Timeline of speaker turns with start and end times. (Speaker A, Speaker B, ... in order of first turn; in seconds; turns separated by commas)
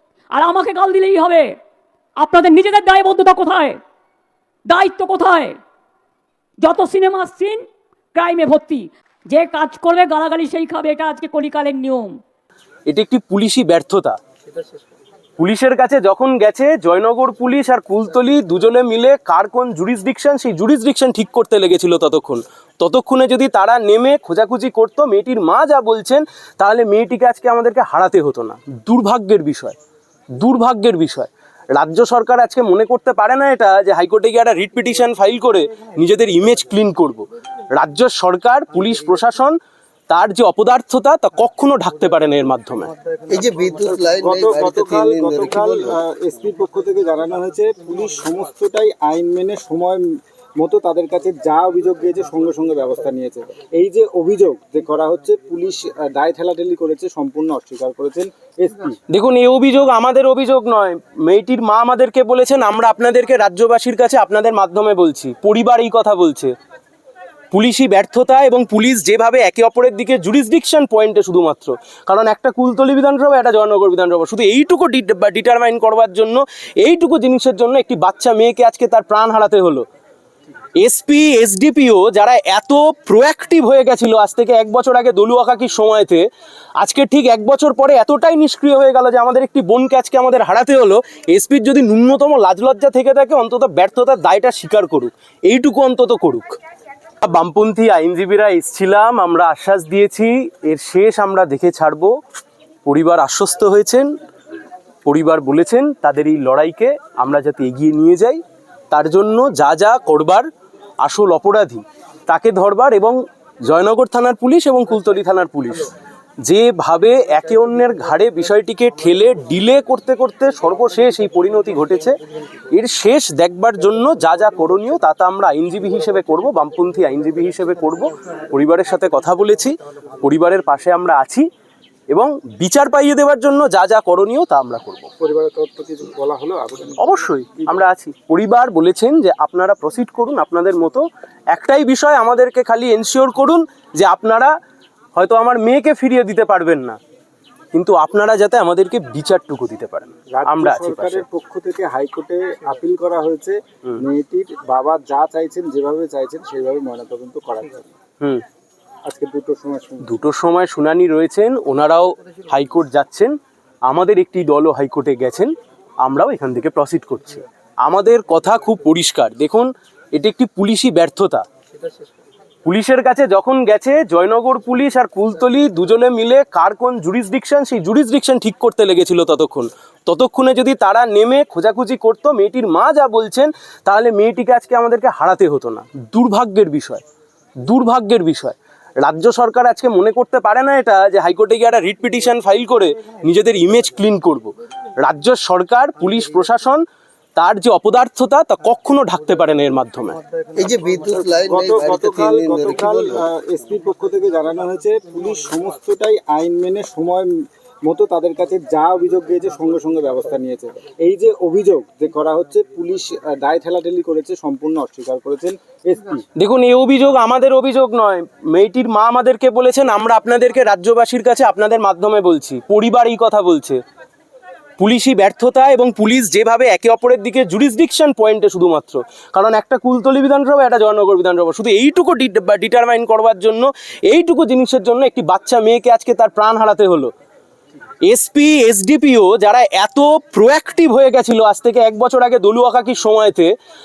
Speaker A: 0.3-1.6, Speaker A: 2.2-3.8, Speaker A: 4.7-5.6, Speaker A: 6.6-12.2, Speaker B: 12.9-14.2, Speaker B: 15.4-29.8, Speaker B: 30.4-39.6, Speaker B: 40.1-42.9, Speaker C: 43.3-46.0, Speaker D: 44.2-50.0, Speaker D: 50.6-59.0, Speaker B: 59.1-66.5, Speaker B: 67.5-79.8, Speaker B: 80.8-86.2, Speaker B: 86.8-96.5, Speaker B: 97.2-102.1, Speaker B: 102.9-104.1, Speaker B: 105.1-108.4, Speaker B: 108.9-110.5, Speaker B: 111.0-115.9, Speaker B: 116.5-122.2, Speaker B: 122.7-131.4, Speaker B: 132.1-135.1, Speaker D: 135.2-137.2, Speaker B: 137.0-144.5, Speaker B: 145.2-147.0, Speaker B: 147.7-151.3, Speaker D: 150.3-157.9, Speaker D: 159.1-160.2, Speaker B: 160.0-163.3, Speaker B: 163.9-165.5, Speaker B: 166.0-171.4, Speaker B: 172.7-187.0, Speaker B: 187.7-196.8, Speaker B: 197.4-200.2, Speaker C: 200.6-203.2, Speaker D: 201.2-207.3, Speaker D: 207.8-216.2, Speaker B: 216.4-223.8, Speaker B: 224.8-237.1, Speaker B: 238.1-243.5